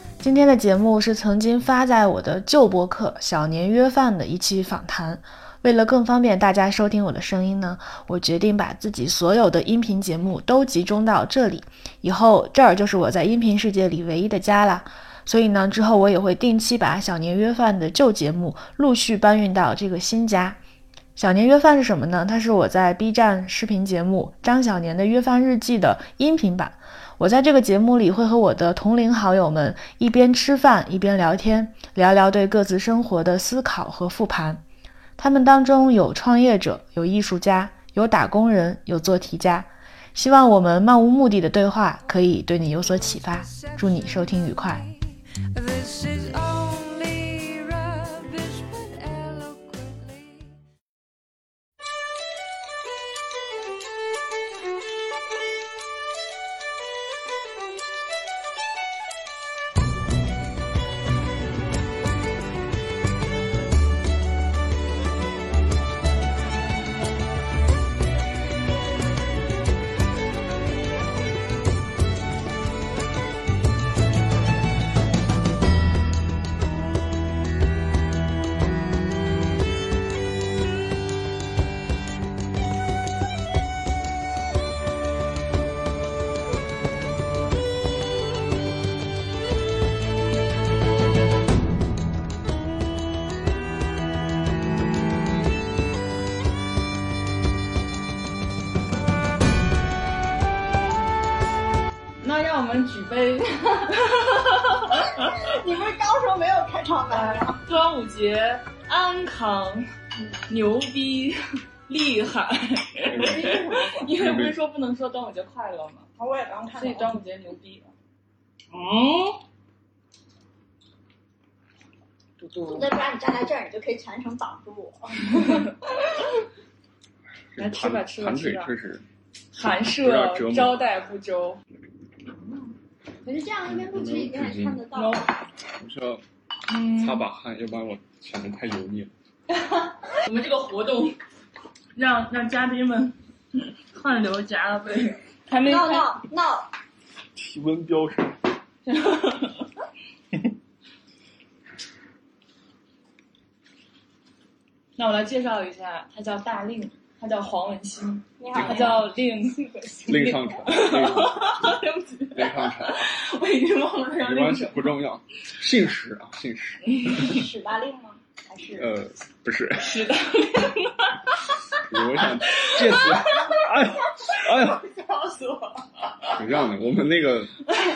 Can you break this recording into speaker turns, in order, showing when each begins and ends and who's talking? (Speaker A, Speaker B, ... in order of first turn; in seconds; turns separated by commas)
Speaker A: 0.2-20.6, Speaker A: 21.1-34.6, Speaker A: 35.2-44.9, Speaker B: 43.1-44.9, Speaker B: 45.5-50.6, Speaker C: 102.2-105.3, Speaker D: 105.2-107.6, Speaker C: 107.1-109.9, Speaker C: 110.5-116.1, Speaker E: 113.0-113.6, Speaker D: 113.1-114.2, Speaker E: 114.1-114.5, Speaker D: 116.2-117.1, Speaker C: 116.7-117.9, Speaker C: 118.7-119.4, Speaker C: 122.4-123.0, Speaker D: 122.7-125.7, Speaker E: 127.5-129.0, Speaker C: 127.6-128.7, Speaker C: 129.5-131.6, Speaker E: 130.0-130.8, Speaker D: 133.2-135.3, Speaker E: 133.7-134.8, Speaker C: 134.9-135.3, Speaker E: 135.8-136.2, Speaker C: 136.7-137.2, Speaker E: 136.9-139.1, Speaker C: 140.2-141.2, Speaker C: 141.9-146.1, Speaker D: 145.6-146.7, Speaker E: 147.3-148.3, Speaker C: 148.8-149.7, Speaker C: 155.0-165.0, Speaker D: 158.4-159.7, Speaker E: 158.5-159.1, Speaker E: 160.1-161.7, Speaker E: 162.3-163.2, Speaker E: 164.2-167.0, Speaker C: 166.9-167.3, Speaker D: 167.1-168.9, Speaker E: 168.8-170.0, Speaker C: 169.8-171.8, Speaker E: 171.9-174.8, Speaker C: 172.4-173.6, Speaker C: 174.3-176.4, Speaker E: 176.3-177.7